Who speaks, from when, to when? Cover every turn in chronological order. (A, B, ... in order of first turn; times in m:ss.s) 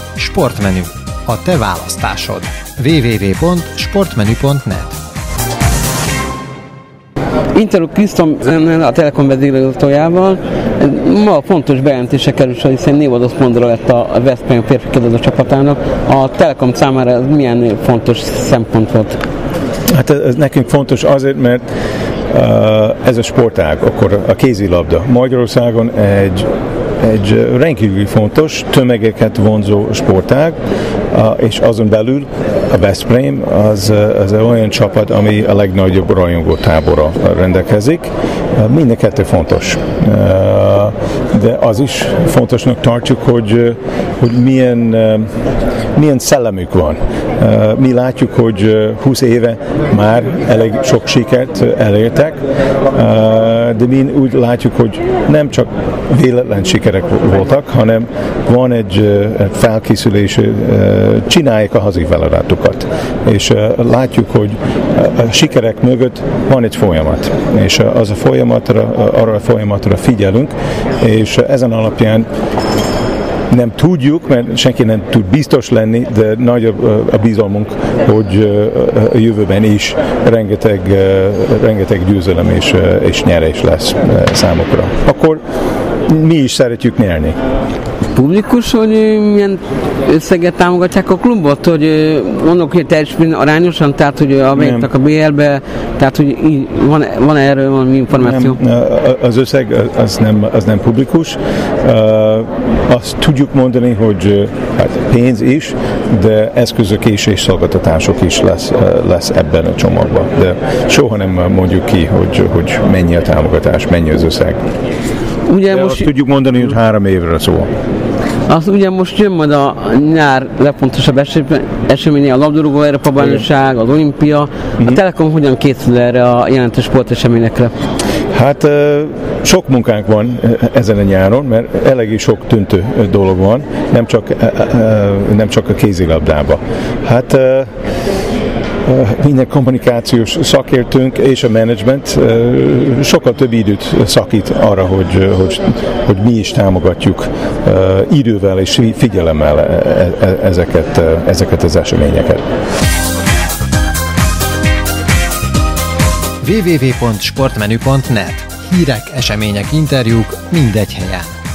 0:00.2-0:04.9 A
0:07.5-0:19.2 B
0:19.9-0:21.6 C
0:22.3-0:26.5 C
0:27.0-0:30.6 C
0:31.1-0:45.3 C
0:46.0-0:52.4 C
0:52.9-1:12.3 C
1:13.5-1:25.4 C
1:26.1-1:27.4 C
1:28.1-1:38.6 B
1:34.5-1:34.9 C
1:38.2-1:54.6 C
1:55.4-1:56.1 B
1:55.7-1:57.7 C
1:58.5-2:07.7 B
2:08.3-2:17.7 C
2:18.8-2:32.4 C
2:36.4-2:41.4 A